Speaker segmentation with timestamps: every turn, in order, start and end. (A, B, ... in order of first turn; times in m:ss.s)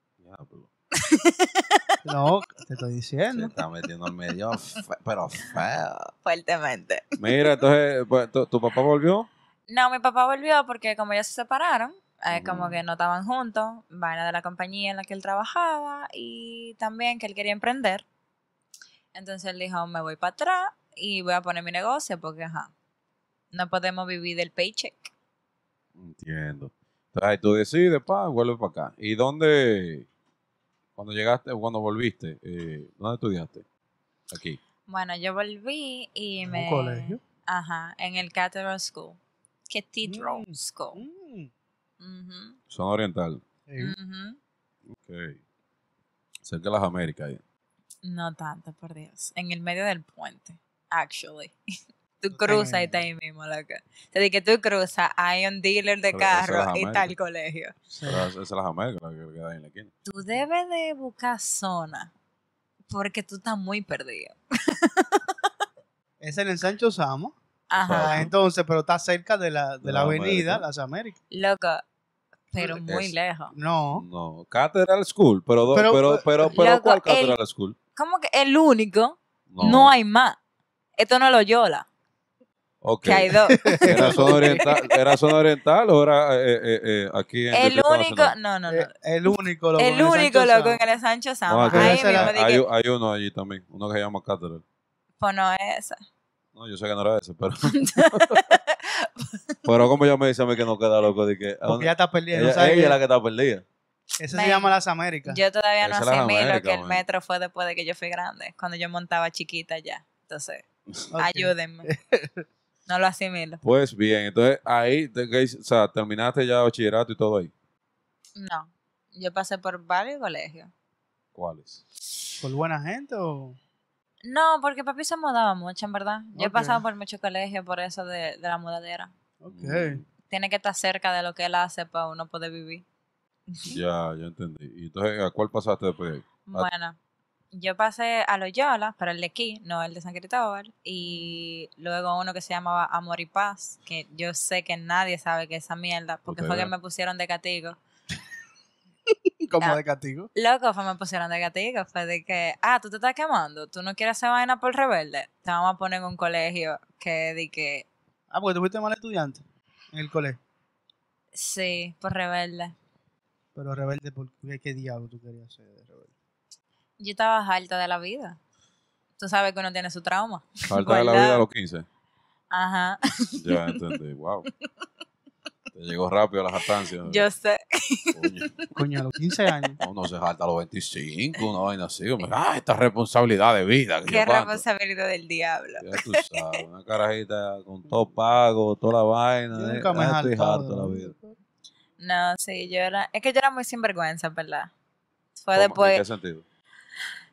0:00.2-0:00.7 A
0:00.9-0:02.0 B
0:02.0-0:03.6 C
0:03.3-0:06.1 A
0:06.2-0:07.6 B
0:07.2-0:09.3 A
0:09.7-0:18.0 B
0:12.3-0:12.8 A
0:19.2-0:22.7 B
0:23.5-0:25.1 B
0:26.0-0:30.1 A
0:31.0-0:33.6 A
0:34.3-0:34.6 A
0:34.9-0:39.2 B
0:36.5-0:37.2 C
0:39.7-0:41.0 B
0:40.1-0:41.5 C
0:42.0-0:42.6 B
0:42.7-0:43.4 A
0:43.7-0:44.0 C
0:43.8-0:44.4 B
0:44.9-0:45.4 A
0:46.4-0:47.4 A
0:48.0-0:51.6 B
0:52.2-0:57.8 B
0:52.4-0:53.1 C
0:56.1-0:57.1 A
0:57.9-0:58.3 C
0:58.0-0:59.9 A
1:00.1-1:02.1 B
1:02.9-1:05.5 B
1:06.2-1:07.3 C
1:07.7-1:08.3 B
1:07.7-1:08.3 A
1:07.9-1:11.2 C
1:09.8-1:10.6 A
1:11.3-1:11.8 B
1:12.5-1:13.5 B
1:12.9-1:13.1 A
1:13.5-1:14.0 C
1:13.9-1:17.8 A
1:15.7-1:16.5 C
1:16.5-1:17.4 B
1:18.0-1:20.4 B
1:19.5-1:19.9 A
1:21.0-1:21.9 B
1:22.8-1:28.4 A
1:23.0-1:24.7 B
1:23.5-1:24.8 C
1:27.5-1:32.6 B
1:28.7-1:30.8 C
1:31.5-1:34.6 A
1:31.7-1:32.3 C
1:35.2-1:36.0 B
1:36.6-1:38.6 A
1:37.7-1:39.8 B
1:39.7-1:43.6 A
1:41.7-1:43.0 C
1:44.2-1:45.4 C
1:44.3-1:44.7 B
1:45.3-1:50.6 B
1:45.8-1:47.0 A
1:51.1-1:52.4 C
1:51.2-1:51.9 B
1:52.9-1:53.6 B
1:53.6-1:57.5 A
1:58.4-2:00.7 B
2:01.4-2:01.8 A
2:02.4-2:03.6 C
2:04.2-2:09.1 B
2:06.4-2:06.8 C
2:09.4-2:10.0 C
2:09.5-2:10.1 A
2:10.3-2:12.8 B
2:13.5-2:13.8 B
2:13.7-2:16.7 A
2:16.5-2:17.0 B
2:17.5-2:27.8 B
2:21.1-2:21.4 A
2:26.3-2:26.7 A
2:29.1-2:30.3 C
2:30.4-2:37.8 B
2:38.3-2:40.4 C
2:41.4-2:42.7 B
2:43.6-2:46.1 C
2:47.0-2:48.4 B
2:49.2-2:51.4 B
2:50.7-2:51.9 A
2:52.5-2:54.0 B
2:53.4-2:54.5 A
2:55.7-2:57.3 A
2:57.0-2:58.7 B
2:58.1-2:58.5 A
2:58.8-2:59.8 C
2:59.8-3:04.6 A
3:04.1-3:06.6 B
3:05.8-3:11.1 A
3:09.5-3:11.4 C
3:12.0-3:14.7 B
3:15.4-3:16.0 B
3:15.5-3:16.4 A